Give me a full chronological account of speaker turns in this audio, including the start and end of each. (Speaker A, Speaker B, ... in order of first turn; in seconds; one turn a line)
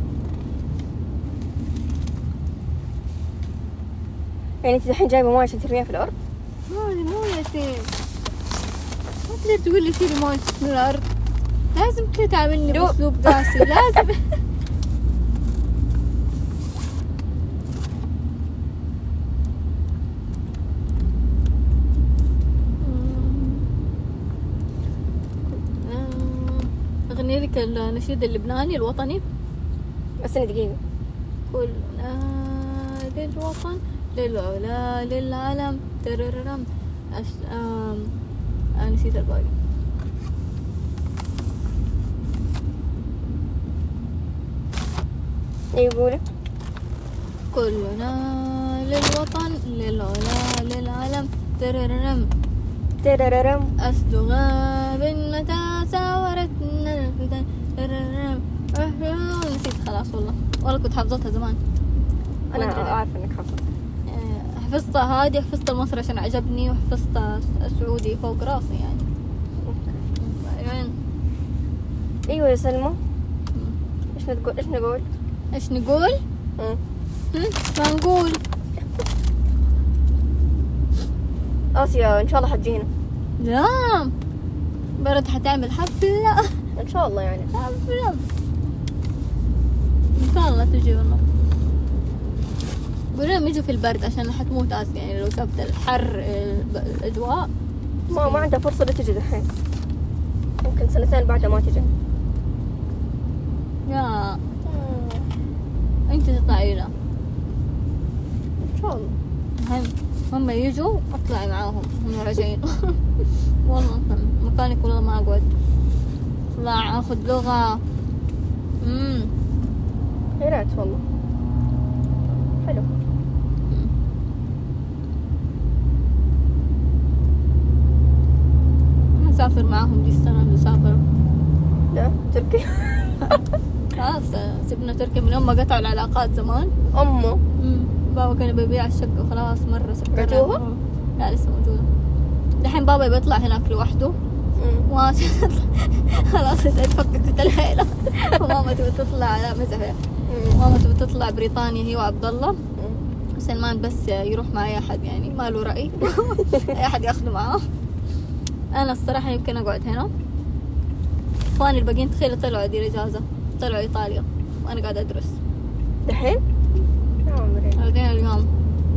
Speaker A: 4.6-6.1
Speaker B: 6.7-7.9
Speaker B: 9.3-11.1
Speaker B: 11.7-14.3
Speaker A: 12.7-14.0
Speaker B: 22.8-23.6
Speaker B: 25.5-29.2
Speaker A: 30.2-30.8
Speaker B: 31.5-38.1
Speaker B: 38.8-39.5
Speaker A: 45.7-46.2
Speaker B: 47.5-52.3
Speaker A: 53.0-53.7
Speaker B: 53.8-61.6
Speaker A: 62.5-63.6
Speaker B: 62.5-63.0
Speaker B: 64.1-69.1
Speaker A: 69.6-70.0
Speaker B: 70.2-71.0
Speaker A: 72.3-73.0
Speaker A: 74.1-75.1
Speaker B: 75.5-76.2
Speaker B: 77.3-78.4
Speaker A: 81.8-82.9
Speaker B: 83.4-84.1
Speaker B: 85.0-86.5
Speaker A: 86.8-87.5
Speaker B: 87.5-88.2
Speaker B: 90.2-91.2
Speaker B: 93.1-97.5
Speaker B: 98.1-98.5
Speaker A: 98.1-99.5
Speaker A: 100.6-101.9
Speaker B: 103.9-104.4
Speaker A: 104.7-105.3
Speaker B: 106.1-106.9
Speaker A: 108.7-109.2
Speaker B: 109.6-113.0
Speaker B: 113.6-115.5
Speaker B: 116.5-117.8
Speaker B: 118.8-119.3
Speaker A: 120.4-121.0
Speaker A: 122.6-122.9
Speaker B: 129.2-131.0
Speaker A: 131.9-133.4
Speaker B: 133.9-136.7
Speaker A: 136.9-137.4
Speaker B: 137.6-141.9
Speaker A: 140.1-140.6
Speaker B: 142.6-144.2
Speaker A: 144.6-144.9
Speaker B: 144.9-150.0
Speaker A: 150.3-150.6
Speaker B: 150.5-152.6
Speaker A: 152.8-153.0
Speaker B: 153.4-157.7
Speaker B: 158.7-160.1
Speaker B: 161.5-165.4
Speaker A: 166.1-166.4
Speaker A: 167.3-167.8
Speaker B: 167.8-168.5